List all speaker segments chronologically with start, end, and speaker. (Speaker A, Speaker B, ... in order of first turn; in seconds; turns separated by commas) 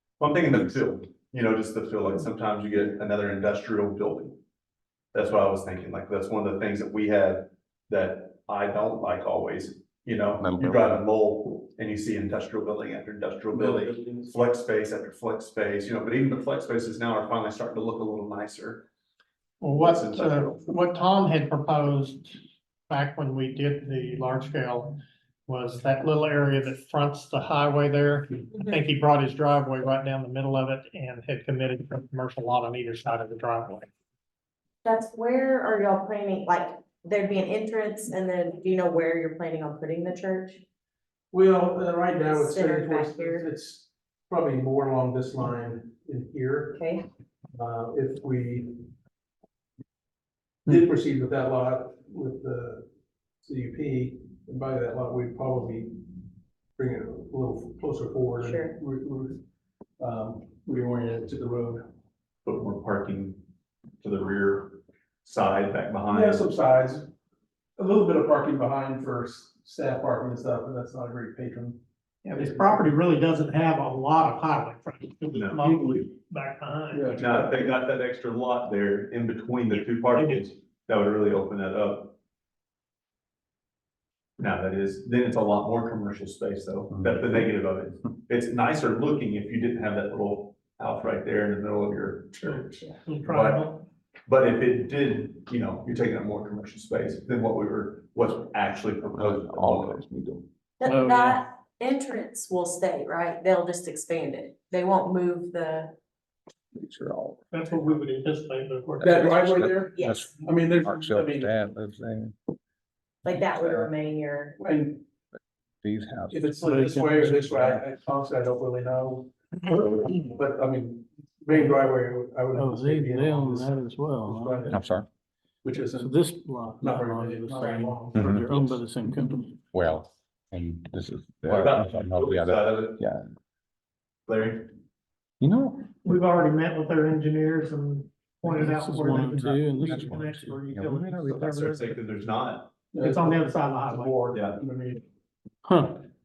Speaker A: 0.2-4.4, Speaker A: 5.1-18.9, Speaker B: 10.4-11.0, Speaker C: 13.5-14.4, Speaker D: 19.6-22.4, Speaker A: 19.8-20.6, Speaker D: 22.9-33.9, Speaker E: 34.9-40.6, Speaker C: 41.3-46.8, Speaker E: 42.3-43.5, Speaker E: 46.7-47.0, Speaker C: 47.5-48.9, Speaker C: 50.7-52.9, Speaker C: 53.4-56.2, Speaker C: 56.8-59.4, Speaker E: 58.4-58.8, Speaker C: 60.0-61.8, Speaker A: 62.5-63.4, Speaker A: 64.0-66.5, Speaker C: 66.1-67.1, Speaker C: 67.8-71.8, Speaker D: 72.2-77.3, Speaker C: 72.3-73.0, Speaker A: 75.3-75.6, Speaker C: 75.6-76.1, Speaker C: 76.9-77.8, Speaker A: 77.2-82.2, Speaker D: 79.9-80.5, Speaker A: 84.4-93.7, Speaker B: 86.9-87.2, Speaker D: 92.4-93.8, Speaker A: 94.3-100.0, Speaker B: 99.1-100.5, Speaker E: 100.8-105.9, Speaker F: 100.8-101.4, Speaker B: 106.8-107.9, Speaker D: 107.5-109.4, Speaker C: 109.0-111.5, Speaker B: 109.0-112.3, Speaker E: 109.9-110.4, Speaker E: 113.2-114.6, Speaker B: 113.6-113.9, Speaker C: 114.6-115.0, Speaker B: 115.8-116.5, Speaker C: 116.3-124.8, Speaker F: 116.6-117.8, Speaker F: 122.5-124.8, Speaker B: 124.7-125.1, Speaker C: 125.6-126.2, Speaker F: 126.0-129.6, Speaker C: 126.8-128.8, Speaker B: 128.2-128.6, Speaker B: 129.7-133.2, Speaker A: 131.5-133.0, Speaker A: 134.3-134.7, Speaker B: 135.4-135.9, Speaker D: 136.0-142.0, Speaker F: 138.5-140.5, Speaker B: 139.1-141.6, Speaker A: 141.3-142.7, Speaker C: 142.9-145.1, Speaker D: 143.0-144.2, Speaker A: 144.3-144.6, Speaker F: 145.7-145.9